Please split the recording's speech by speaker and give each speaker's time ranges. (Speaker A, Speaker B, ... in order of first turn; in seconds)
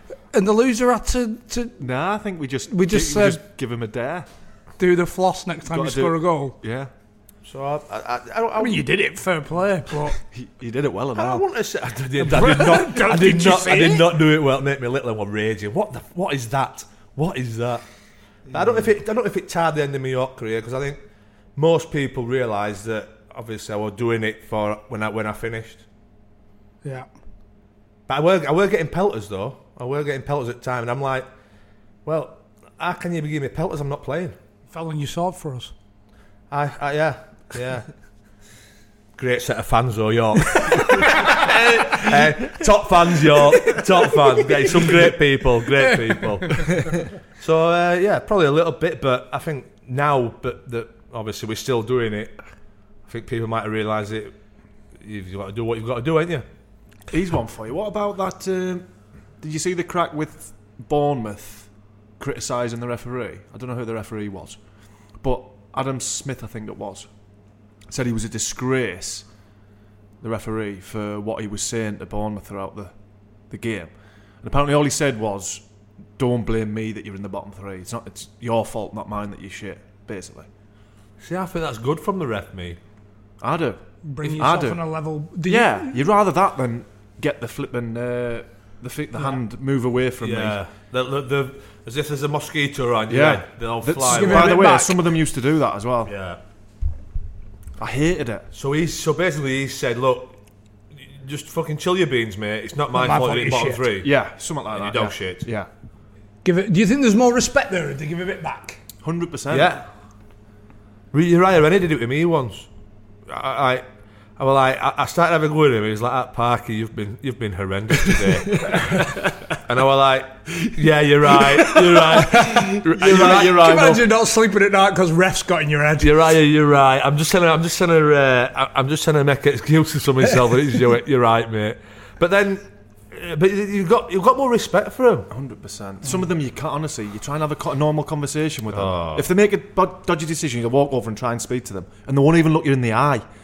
Speaker A: 0.3-1.8, 2.7-3.4, 4.8-6.5, 8.6-10.2, 12.2-14.1, 34.7-35.7, 84.0-86.0, 94.0-95.2, 102.9-103.8, 106.4-108.8, 122.2-126.2
Speaker B: 1.8-4.3, 5.7-6.9, 10.2-11.4, 57.1-58.9, 59.4-64.6, 65.2-67.1, 67.9-69.3, 70.2-72.9, 73.5-75.6, 76.2-80.5, 83.4-84.8, 85.4-90.6, 93.1-96.1, 97.8-98.5, 104.0-105.7, 109.0-109.8, 118.5-119.2, 121.3-122.1, 122.8-124.0, 135.3-143.2
Speaker C: 7.4-8.8, 11.1-17.9, 18.5-21.0, 21.6-25.8, 28.1-31.3, 32.0-34.4, 36.5-37.9, 39.1-52.4, 53.0-54.4, 55.0-56.5, 81.2-82.8, 90.2-94.7, 96.0-96.4, 98.5-100.4, 100.9-104.1, 104.7-105.5, 109.5-109.8, 111.1-112.7, 113.3-113.8, 114.4-124.0, 126.0-135.3, 138.7-139.3